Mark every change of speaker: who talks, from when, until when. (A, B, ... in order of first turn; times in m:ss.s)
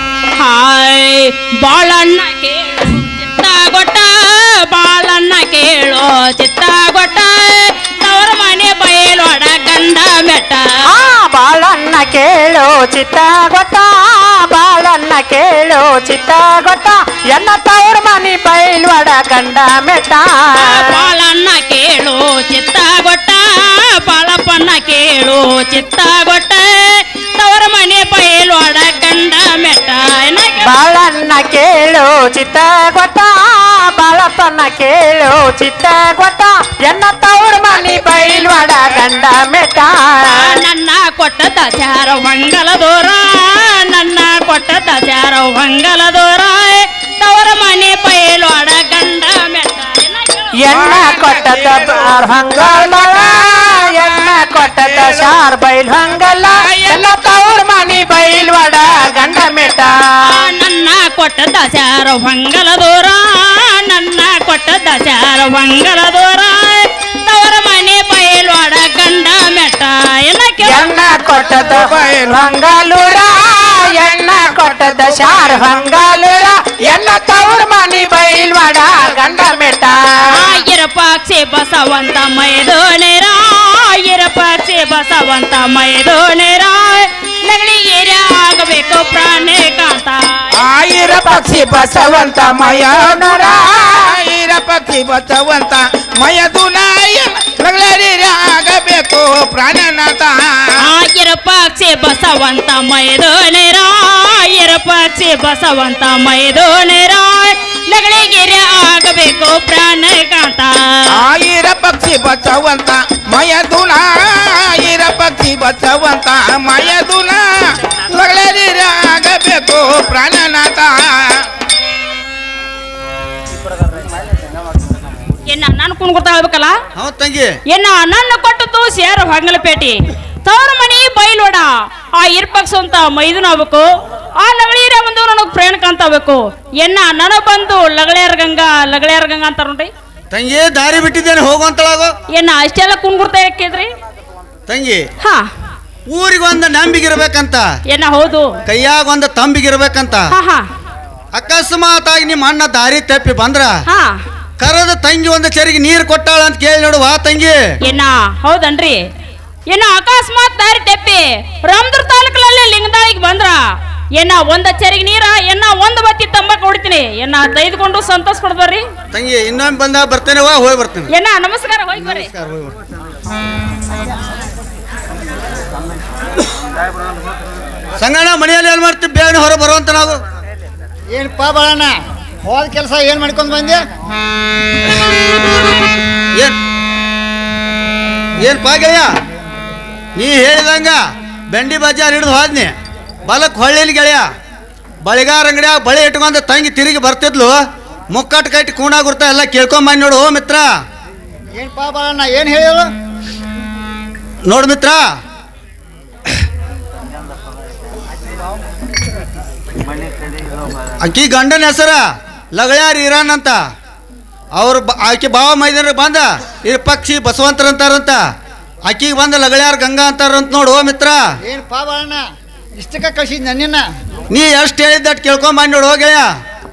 0:00.4-0:10.8 A
0:10.9-0:20.8 B
0:20.6-0:30.7 A
0:30.6-0:40.6 B
0:40.3-0:50.6 A
0:50.5-1:00.4 B
0:50.7-0:55.4 C
0:56.4-0:57.4 C
1:00.2-1:10.9 A
1:10.6-1:20.6 B
1:11.1-1:12.7 C
1:20.3-1:30.7 A
1:30.5-1:40.7 C
1:31.2-1:33.9 B
1:40.8-1:51.1 A
1:51.1-2:01.4 C
2:05.5-2:06.8 A
2:07.0-2:07.5 D
2:07.7-2:13.9 A
2:14.4-2:19.9 A
2:20.3-2:22.1 D
2:22.3-2:23.9 A
2:24.7-2:25.0 D
2:25.2-2:25.5 A
2:26.1-2:27.6 D
2:27.9-2:28.5 A
2:28.7-2:30.2 D
2:30.3-2:30.6 A
2:31.3-2:33.7 D
2:33.9-2:34.2 A
2:34.6-2:37.6 D
2:37.8-2:39.1 A
2:39.7-2:43.6 A
2:44.2-2:48.8 A
2:49.1-2:51.1 D
2:51.1-2:52.3 A
2:52.0-2:52.8 D
2:58.0-3:00.2 D
3:01.1-3:03.8 E
3:08.4-3:09.1 D
3:10.2-3:11.0 D
3:11.5-3:12.7 D
3:13.3-3:14.3 D
3:15.0-3:17.6 D
3:18.1-3:20.7 D
3:21.6-3:22.9 E
3:24.4-3:25.0 D
3:31.0-3:32.0 D
3:32.6-3:33.6 D
3:34.6-3:38.2 D
3:38.9-3:41.2 D
3:41.4-3:42.2 E
3:42.8-3:43.8 E
3:44.3-3:46.3 D